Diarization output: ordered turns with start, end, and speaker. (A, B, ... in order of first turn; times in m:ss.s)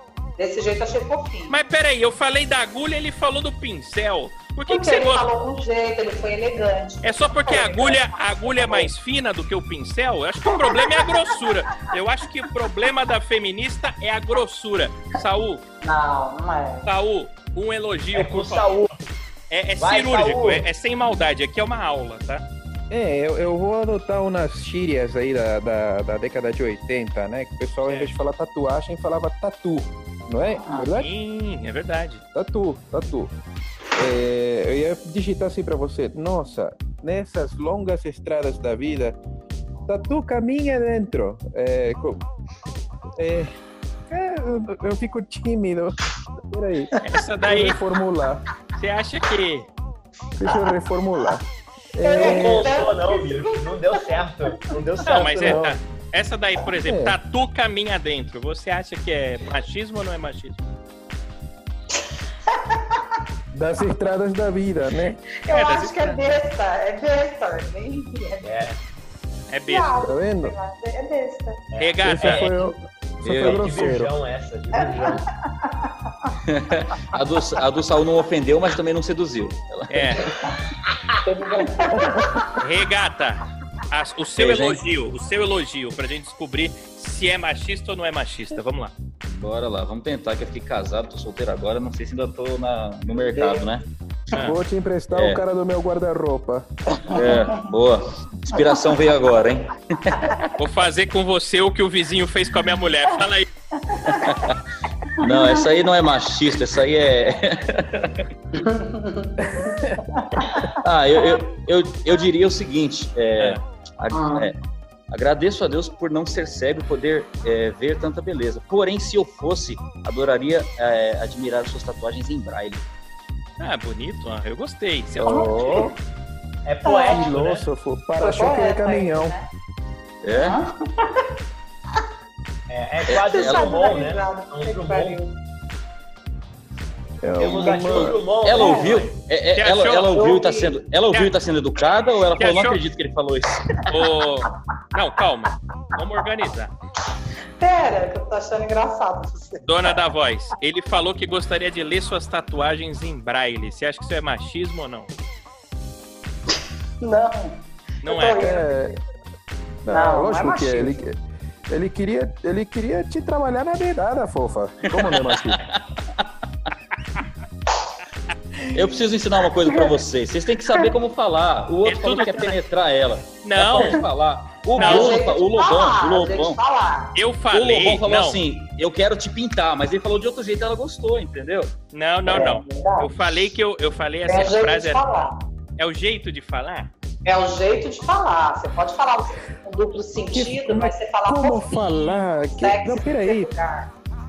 0:00.4-0:01.6 A
0:01.5-0:05.3 B
0:04.7-0:08.9 A
0:07.0-0:15.6 B
0:10.5-0:11.4 A
0:15.8-0:16.9 A
0:16.8-0:18.8 B
0:18.1-0:19.0 C
0:19.5-0:22.4 B
0:19.8-0:20.7 C
0:22.9-0:31.1 D
0:27.8-0:28.1 B
0:30.6-0:30.9 A
0:30.9-0:32.2 B
0:32.3-0:33.3 D
0:34.0-0:39.2 D
0:39.9-0:42.2 D
0:43.2-0:43.5 D
0:44.1-0:48.4 D
0:47.0-0:47.8 B
0:48.8-0:49.7 B
0:50.4-0:52.8 D
0:50.5-0:50.7 A
0:52.0-0:54.7 A
0:52.2-0:55.7 C
0:55.0-1:00.7 B
0:56.7-0:57.2 D
1:02.5-1:03.0 A
1:03.5-1:05.2 D
1:05.4-1:08.6 A
1:05.5-1:06.2 B
1:08.4-1:08.8 C
1:09.5-1:09.9 B
1:09.7-1:11.6 A
1:10.0-1:10.5 D
1:11.7-1:12.5 C
1:11.8-1:12.5 B
1:12.0-1:14.1 D
1:13.2-1:13.7 E
1:13.4-1:15.2 C
1:14.8-1:16.3 A
1:16.4-1:20.3 E
1:19.9-1:20.3 B
1:20.9-1:21.2 C
1:21.2-1:22.6 A
1:21.9-1:22.4 D
1:22.6-1:28.9 B
1:24.4-1:24.8 E
1:29.2-1:33.8 E
1:33.2-1:33.7 A
1:34.3-1:34.6 B
1:34.3-1:36.6 D
1:35.1-1:35.4 E
1:37.0-1:37.6 A
1:37.1-1:40.5 E
1:38.6-1:38.8 A
1:40.6-1:43.5 B
1:43.8-1:44.4 A
1:44.0-1:44.6 E
1:45.1-1:45.8 A
1:45.2-1:48.2 E
1:48.5-1:50.8 A
1:49.5-1:50.0 D
1:50.8-1:54.6 E
1:54.1-1:54.5 A
1:55.1-2:02.8 E
2:03.6-2:05.6 B
2:05.2-2:05.9 D
2:05.2-2:05.9 A
2:06.6-2:07.6 C
2:06.8-2:07.3 A
2:07.1-2:09.3 D
2:08.2-2:09.5 A
2:10.2-2:10.6 E
2:10.3-2:11.3 A
2:12.7-2:15.2 C
2:13.1-2:13.8 E
2:13.1-2:15.4 A
2:17.2-2:18.2 D
2:17.4-2:19.2 C
2:17.9-2:23.9 E
2:18.6-2:19.0 A
2:19.5-2:20.1 B
2:20.1-2:20.8 A
2:22.4-2:22.8 B
2:23.9-2:26.7 B
2:27.6-2:30.0 A
2:29.6-2:35.1 B
2:37.0-2:39.0 A
2:38.0-2:38.5 B
2:38.4-2:38.9 D
2:39.8-2:41.2 D
2:39.9-2:41.0 A
2:41.7-2:45.6 D
2:44.9-2:46.3 E
2:48.7-2:56.6 E
2:49.7-2:49.9 A
2:51.8-2:52.6 B
2:53.4-2:54.0 B
2:54.7-2:57.2 A
2:54.8-2:55.2 B
2:57.1-2:58.4 B
2:57.5-3:01.7 E
3:01.9-3:05.1 B
3:02.3-3:03.5 A
3:04.3-3:05.4 A
3:05.8-3:06.9 B
3:07.2-3:13.9 A
3:10.3-3:13.5 D